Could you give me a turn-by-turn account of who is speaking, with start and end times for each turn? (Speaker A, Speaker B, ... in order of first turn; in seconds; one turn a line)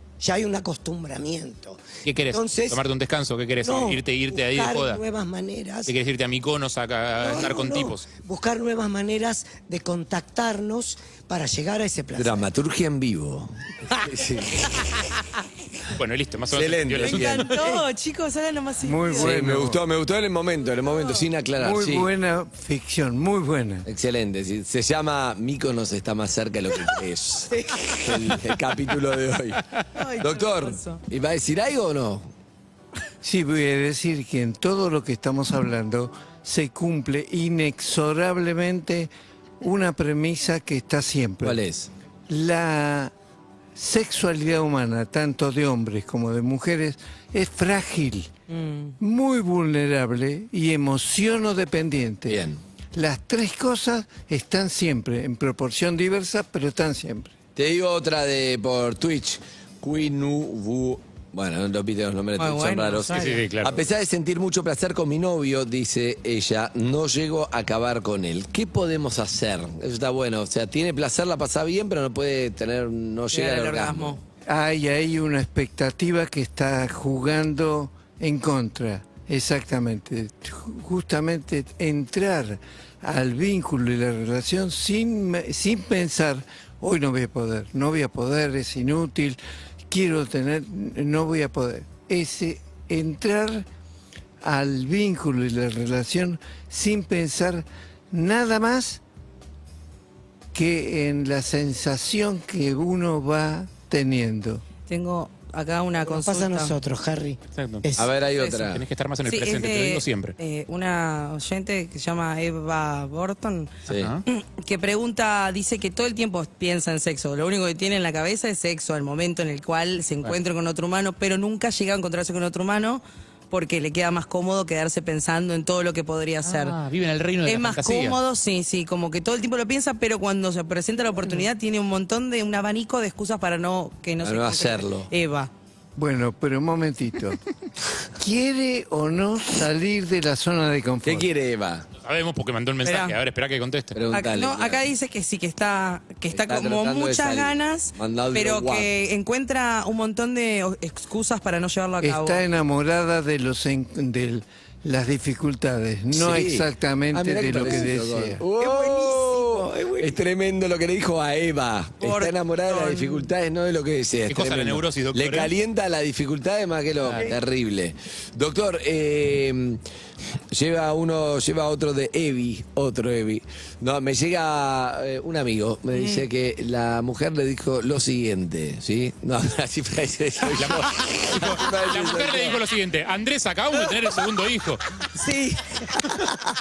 Speaker A: 0.2-2.8
Speaker B: 2.0-5.0
Speaker A: 3.6-5.9
Speaker B: 5.8-8.1
Speaker A: 7.2-12.4
Speaker C: 12.1-15.0
Speaker B: 15.9-17.5
Speaker C: 16.5-17.7
Speaker D: 17.0-19.3
Speaker E: 18.8-19.8
Speaker C: 19.1-22.1
Speaker D: 21.0-21.2
Speaker E: 21.6-23.8
Speaker C: 23.9-29.6
Speaker A: 27.5-28.1
Speaker D: 29.9-31.0
Speaker C: 30.2-32.3
Speaker E: 33.2-41.6
Speaker C: 41.4-41.9
Speaker E: 42.3-43.1
Speaker E: 43.7-48.3
Speaker D: 48.5-48.9
Speaker E: 49.0-57.3
Speaker C: 52.3-52.6
Speaker C: 57.5-74.2
Speaker D: 62.4-63.4
Speaker B: 63.1-63.8
Speaker D: 73.3-74.2
Speaker E: 74.5-93.7
Speaker E: 94.4-99.0
Speaker E: 100.5-104.6
Speaker D: 104.9-106.7
Speaker A: 106.0-108.1
Speaker B: 107.5-107.8
Speaker C: 108.0-108.8
Speaker B: 108.6-110.3
Speaker D: 109.2-126.8
Speaker C: 113.9-114.1
Speaker B: 113.9-114.2
Speaker B: 126.4-128.2
Speaker D: 127.4-135.5
Speaker C: 134.2-135.1
Speaker E: 135.9-137.4
Speaker E: 138.1-141.3
Speaker C: 141.0-141.8
Speaker B: 142.0-143.9
Speaker D: 142.8-143.2
Speaker C: 143.9-144.8
Speaker D: 144.1-152.4
Speaker C: 146.3-148.9
Speaker E: 152.0-158.4
Speaker C: 156.1-169.8
Speaker A: 158.6-160.1
Speaker D: 162.0-163.3
Speaker B: 164.3-165.5
Speaker B: 167.0-167.3
Speaker C: 170.5-182.6
Speaker D: 175.9-176.2
Speaker B: 180.6-184.8
Speaker D: 185.1-186.0